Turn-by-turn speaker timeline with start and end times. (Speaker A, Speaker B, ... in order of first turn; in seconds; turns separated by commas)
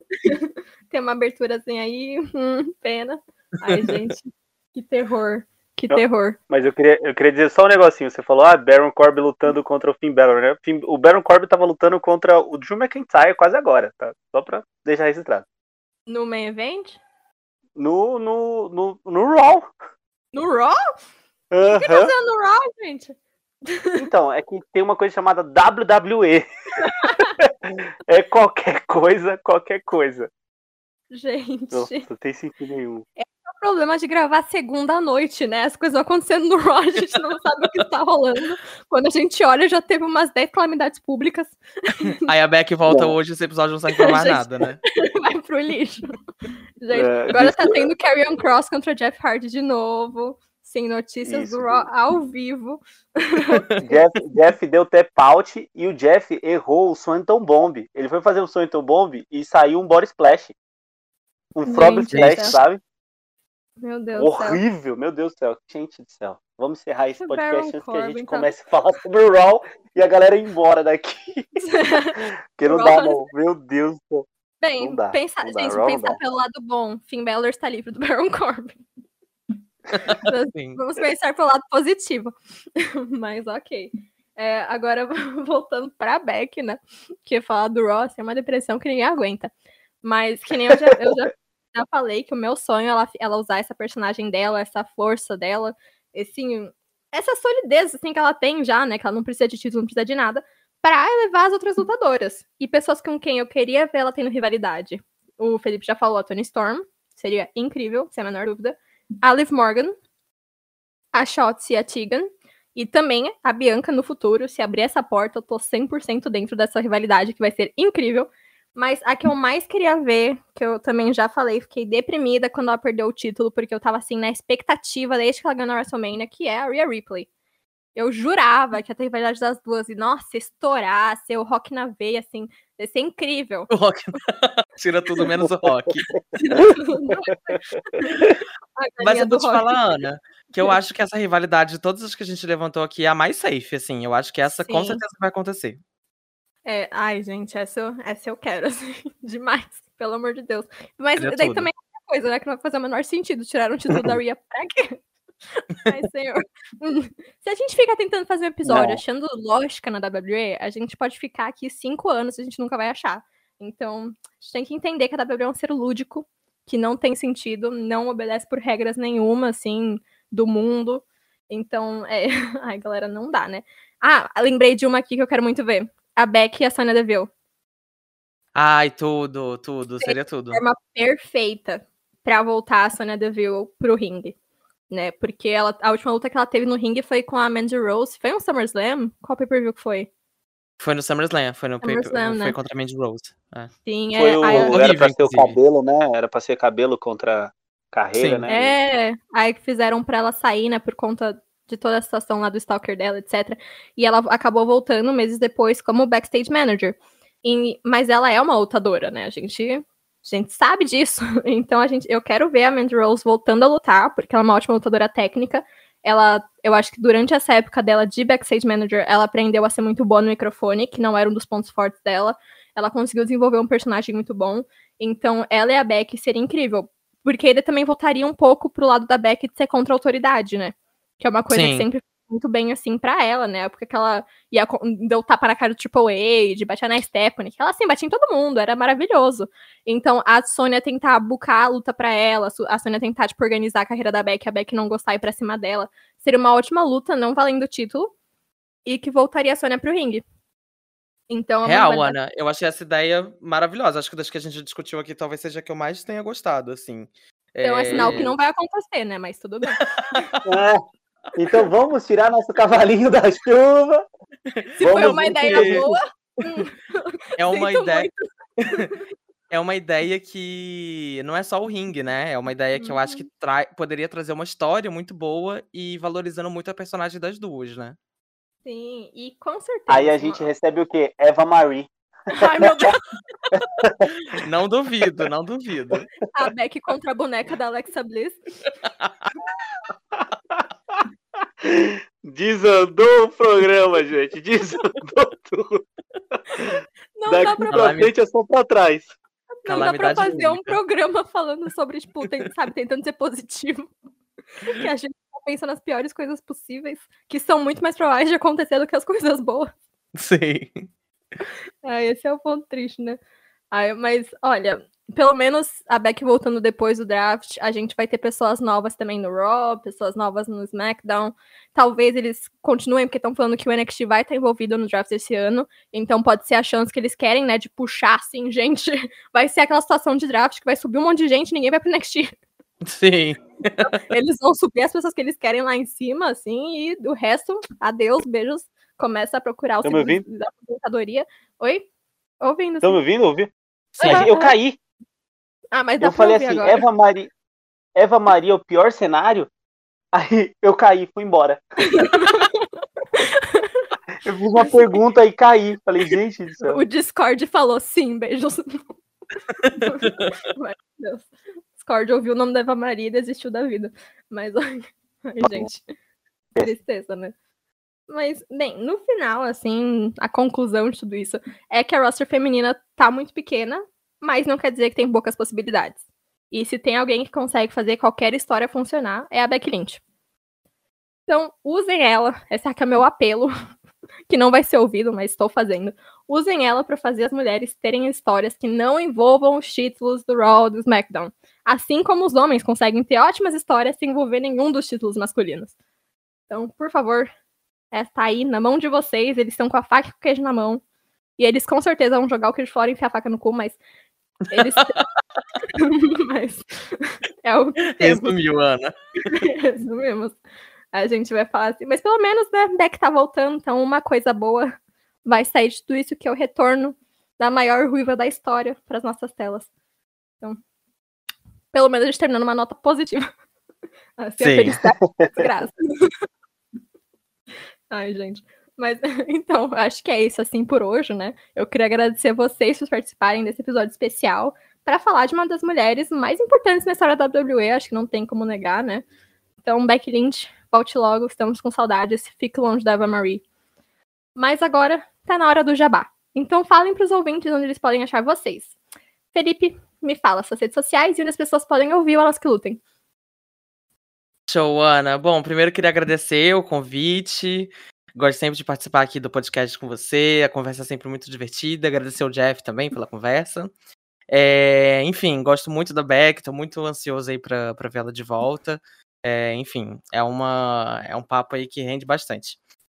Speaker A: 0.2-6.4, Speaker B: 3.7-3.9, Speaker C: 5.9-15.4, Speaker A: 16.1-17.0, Speaker C: 17.8-19.7, Speaker A: 20.3-20.8, Speaker C: 21.5-22.1, Speaker A: 21.7-24.0, Speaker C: 23.9-26.4, Speaker A: 26.8-27.4, Speaker C: 27.0-30.3, Speaker A: 31.1-32.1, Speaker C: 31.7-33.0, Speaker A: 33.2-42.2, Speaker B: 42.2-44.8, Speaker C: 42.9-43.1, Speaker A: 44.0-44.4, Speaker A: 44.9-46.0, Speaker A: 46.8-53.9, Speaker C: 46.9-47.9, Speaker C: 51.2-51.9, Speaker C: 53.8-60.5, Speaker C: 61.5-62.8, Speaker A: 61.6-62.5, Speaker B: 62.1-62.5, Speaker A: 63.8-64.6, Speaker C: 64.2-71.6, Speaker A: 67.2-68.5, Speaker A: 71.6-73.2, Speaker C: 72.2-74.3, Speaker A: 74.6-78.8, Speaker C: 74.8-76.2, Speaker B: 79.9-80.8, Speaker A: 80.2-89.5, Speaker A: 90.0-110.0, Speaker A: 111.1-127.3, Speaker A: 127.9-133.7, Speaker B: 133.7-136.1, Speaker A: 136.4-139.8, Speaker B: 139.0-145.8, Speaker A: 144.5-145.0, Speaker A: 146.6-155.0, Speaker B: 151.2-151.7, Speaker A: 155.5-177.3, Speaker C: 158.7-159.0, Speaker B: 178.5-180.6, Speaker A: 180.0-184.3, Speaker A: 184.9-190.1, Speaker B: 190.8-193.7, Speaker A: 191.8-192.6, Speaker A: 193.8-194.8, Speaker C: 194.1-198.8, Speaker B: 194.4-195.6, Speaker B: 198.1-198.5, Speaker A: 198.5-248.1, Speaker B: 231.5-231.8, Speaker A: 248.8-250.2, Speaker A: 251.3-252.1, Speaker B: 251.6-258.3, Speaker A: 257.6-260.4, Speaker C: 257.9-258.3, Speaker B: 259.7-260.3, Speaker C: 260.4-260.8, Speaker C: 261.4-264.0, Speaker B: 264.6-265.9, Speaker A: 264.8-269.0, Speaker C: 264.8-266.0, Speaker B: 267.4-268.1, Speaker B: 268.6-268.9, Speaker B: 269.5-277.9, Speaker A: 272.8-273.2, Speaker A: 278.6-280.5, Speaker C: 279.9-281.9, Speaker A: 282.3-283.6, Speaker C: 283.8-284.1, Speaker B: 284.2-286.1, Speaker A: 286.3-288.4, Speaker C: 290.1-291.0, Speaker C: 291.6-295.8, Speaker A: 296.5-297.8, Speaker C: 297.3-299.1, Speaker B: 297.7-298.1, Speaker A: 299.6-303.9, Speaker B: 299.6-300.8, Speaker A: 304.6-309.7, Speaker B: 310.1-310.9, Speaker A: 311.8-313.2, Speaker A: 313.7-332.3, Speaker B: 332.9-333.9, Speaker A: 333.8-341.9, Speaker C: 339.8-340.2, Speaker A: 342.4-343.0, Speaker C: 342.8-344.8, Speaker A: 344.0-344.5, Speaker A: 345.7-346.8, Speaker C: 346.0-347.3, Speaker C: 347.9-349.5, Speaker C: 350.1-351.6, Speaker A: 351.9-352.6, Speaker A: 353.2-353.9, Speaker C: 354.2-356.8, Speaker A: 356.7-358.8, Speaker A: 359.8-365.8, Speaker C: 365.4-365.7, Speaker A: 366.6-367.3, Speaker A: 368.1-376.0, Speaker A: 376.5-380.0, Speaker A: 381.3-383.5, Speaker A: 384.3-395.7, Speaker A: 396.5-397.3, Speaker A: 397.9-400.8, Speaker A: 401.4-403.8, Speaker A: 404.5-404.9, Speaker B: 404.5-405.0, Speaker A: 405.7-408.3, Speaker B: 407.9-409.4, Speaker A: 409.2-410.4, Speaker A: 410.9-419.7, Speaker A: 421.7-423.3, Speaker A: 424.2-426.1, Speaker B: 424.4-424.8, Speaker A: 427.9-439.0, Speaker A: 439.6-443.4, Speaker A: 444.4-448.7, Speaker A: 449.3-452.8, Speaker B: 454.5-463.7, Speaker B: 464.3-472.6